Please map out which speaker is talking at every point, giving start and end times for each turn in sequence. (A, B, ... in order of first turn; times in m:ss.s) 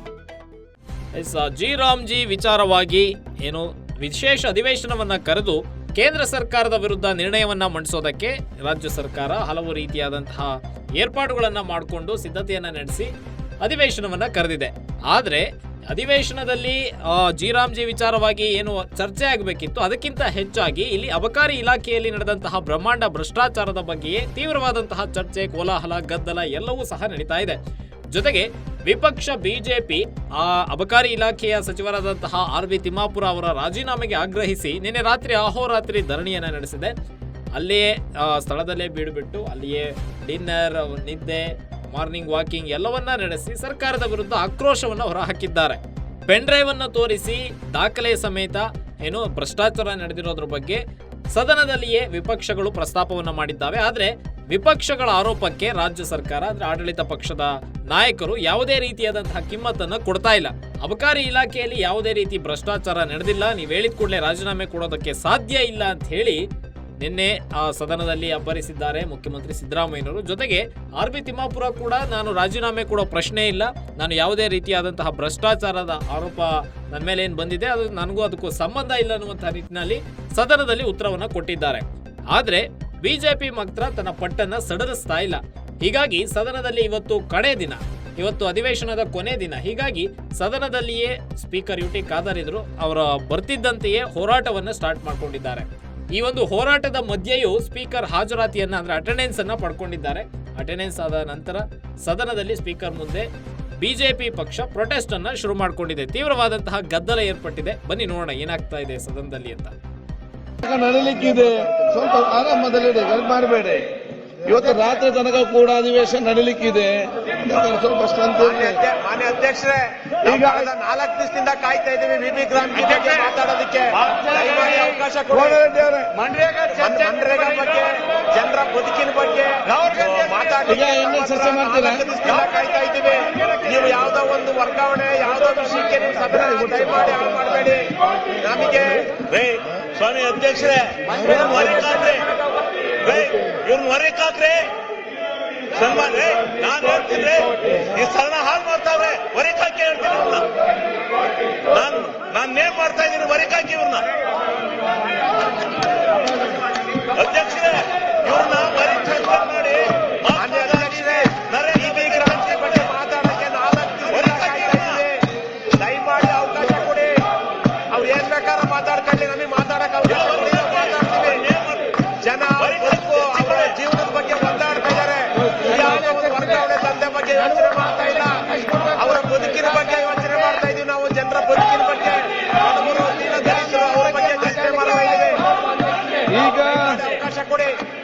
0:01.1-0:27.6 A
0:28.1-0:36.9 A
0:37.5-1:06.4 A
1:07.0-1:43.3 A
1:43.8-1:49.7 A
1:50.6-1:53.9 B
1:54.4-1:58.8 B
1:58.4-2:05.6 C
2:00.2-2:00.7 B
2:05.3-2:06.2 B
2:06.2-2:06.8 D
2:06.7-2:19.2 C
2:09.7-2:10.2 D
2:10.7-2:12.0 B
2:19.2-2:24.8 D
2:25.7-2:30.5 D
2:31.6-2:34.1 D
2:36.9-2:42.9 D
2:40.3-2:47.2 C
2:44.1-2:45.0 D
2:47.9-2:51.5 C
2:50.2-2:52.0 D
2:52.1-3:05.4 C
2:52.6-2:53.6 D
3:06.3-3:07.0 B
3:06.7-3:07.8 C